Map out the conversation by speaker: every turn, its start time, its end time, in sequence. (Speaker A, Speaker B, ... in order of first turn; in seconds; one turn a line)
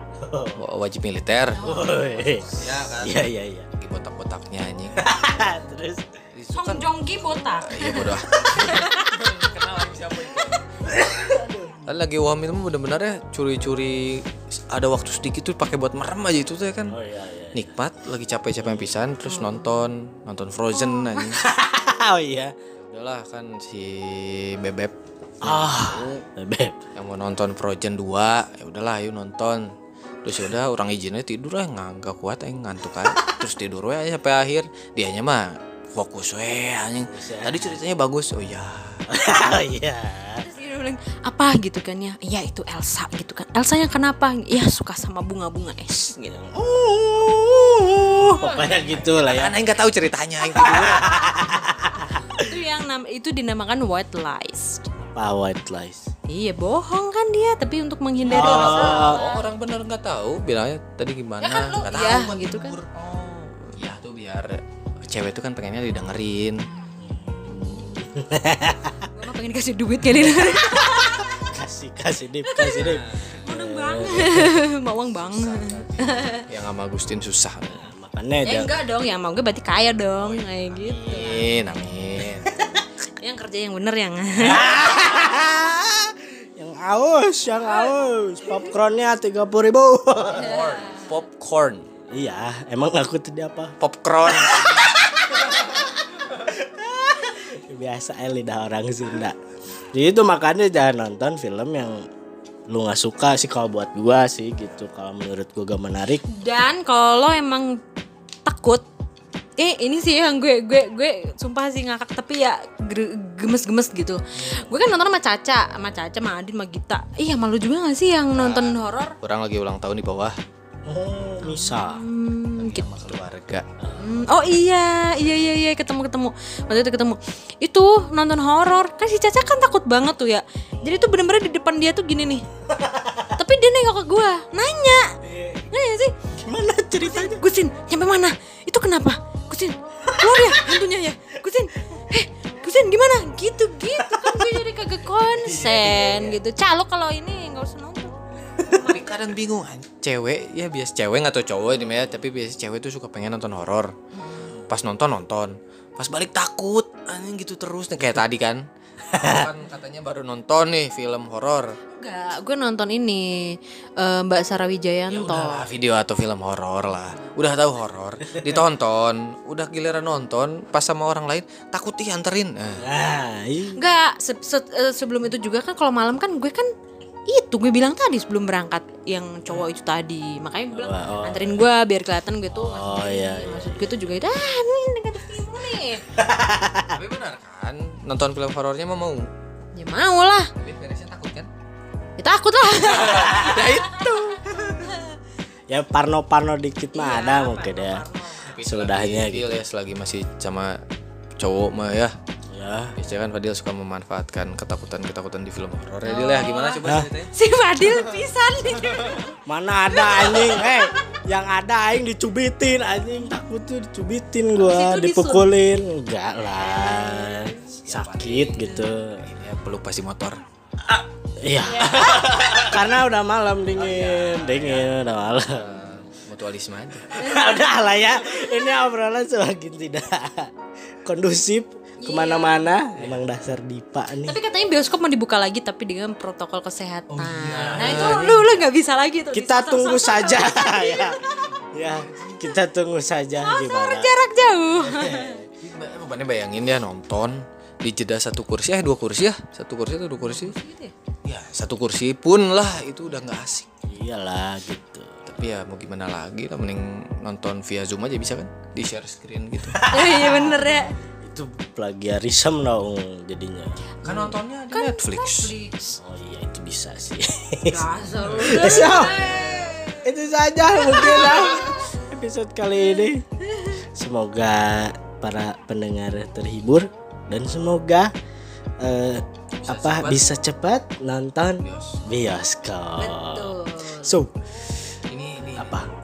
Speaker A: 0.2-0.6
Speaker B: 0.6-1.6
Speaker C: 1.5-2.6
Speaker A: 1.6-3.7
Speaker B: 2.5-3.2
Speaker B: 3.8-5.0
Speaker A: 5.0-6.0
Speaker B: 6.3-6.9
Speaker C: 6.5-9.4
Speaker B: 7.6-10.6
Speaker A: 10.8-11.9
Speaker B: 11.8-17.0
Speaker A: 16.9-17.7
Speaker B: 17.5-21.4
Speaker C: 19.3-19.9
Speaker C: 20.8-21.3
Speaker A: 21.4-22.5
Speaker B: 22.8-26.2
Speaker A: 25.4-26.8
Speaker B: 26.9-29.7
Speaker B: 30.2-39.0
Speaker A: 37.0-37.8
Speaker A: 39.1-40.5
Speaker C: 40.4-46.3
Speaker A: 46.3-49.6
Speaker C: 48.2-49.0
Speaker B: 48.9-51.2
Speaker A: 50.4-52.5
Speaker C: 52.2-54.9
Speaker A: 55.1-56.1
Speaker C: 56.3-59.5
Speaker A: 58.3-59.2
Speaker B: 58.3-66.7
Speaker C: 61.4-62.7
Speaker C: 66.7-67.8
Speaker A: 67.0-69.1
Speaker C: 69.1-71.5
Speaker A: 70.7-74.5
Speaker C: 72.5-76.4
Speaker B: 72.7-73.4
Speaker B: 75.1-77.8
Speaker A: 77.7-78.7
Speaker C: 78.4-81.5
Speaker B: 80.2-82.5
Speaker A: 82.5-82.8
Speaker C: 83.2-84.8
Speaker A: 84.4-90.6
Speaker B: 90.3-91.8
Speaker C: 90.4-91.1
Speaker A: 92.1-93.7
Speaker B: 93.8-94.9
Speaker A: 94.3-99.3
Speaker A: 99.9-102.0
Speaker A: 102.7-106.2
Speaker C: 106.2-107.8
Speaker C: 108.4-108.8
Speaker C: 109.6-119.1
Speaker B: 118.3-120.3
Speaker A: 120.8-122.0
Speaker C: 121.4-123.2
Speaker B: 122.6-123.7
Speaker A: 123.8-124.1
Speaker C: 124.0-132.4
Speaker A: 130.8-131.1
Speaker A: 132.7-133.4
Speaker C: 133.3-135.1
Speaker A: 135.2-135.7
Speaker C: 135.7-136.1
Speaker A: 136.3-137.4
Speaker C: 137.0-149.0
Speaker A: 140.1-140.7
Speaker A: 143.9-144.7
Speaker A: 145.4-146.4
Speaker A: 148.6-148.9
Speaker B: 148.7-153.9
Speaker C: 154.1-154.5
Speaker B: 154.7-161.8
Speaker A: 159.1-159.5
Speaker C: 161.9-165.7
Speaker B: 165.1-172.8
Speaker A: 172.8-173.8
Speaker C: 173.7-176.7
Speaker C: 177.3-186.0
Speaker A: 180.7-181.6
Speaker A: 182.6-183.9
Speaker A: 186.1-187.0
Speaker B: 186.9-189.2
Speaker C: 189.7-190.5
Speaker B: 190.6-191.5
Speaker C: 192.2-195.1
Speaker B: 192.9-194.7
Speaker A: 193.1-193.8
Speaker A: 195.7-198.1
Speaker C: 196.9-198.5
Speaker B: 198.4-200.8
Speaker A: 198.6-199.6
Speaker B: 201.4-202.1
Speaker A: 202.5-202.9
Speaker B: 203.0-207.3
Speaker C: 206.0-209.3
Speaker A: 206.8-207.1
Speaker B: 208.8-209.2
Speaker A: 209.4-219.2
Speaker C: 209.9-211.0
Speaker C: 214.6-215.5
Speaker C: 216.7-217.8
Speaker B: 217.8-220.4
Speaker A: 220.8-225.7
Speaker B: 221.8-222.8
Speaker B: 223.8-227.1
Speaker A: 227.1-230.5
Speaker C: 227.2-227.6
Speaker A: 231.0-234.4
Speaker C: 232.0-232.7
Speaker C: 234.2-241.3
Speaker B: 237.1-238.7
Speaker A: 237.8-238.3
Speaker A: 239.3-244.1
Speaker B: 242.0-242.4
Speaker C: 243.4-245.4
Speaker A: 244.7-245.5
Speaker B: 245.6-250.6
Speaker C: 250.2-250.9
Speaker B: 251.2-253.7
Speaker A: 253.8-255.2
Speaker B: 255.3-259.8
Speaker A: 259.7-263.8
Speaker C: 259.9-260.9
Speaker C: 264.0-266.0
Speaker B: 264.0-265.5
Speaker A: 266.0-273.2
Speaker C: 267.7-270.1
Speaker C: 270.8-271.4
Speaker C: 273.5-273.8
Speaker A: 273.9-278.1
Speaker A: 278.8-284.4
Speaker B: 279.6-280.3
Speaker B: 281.6-282.0
Speaker C: 282.9-284.2
Speaker B: 285.1-285.7
Speaker A: 285.6-285.9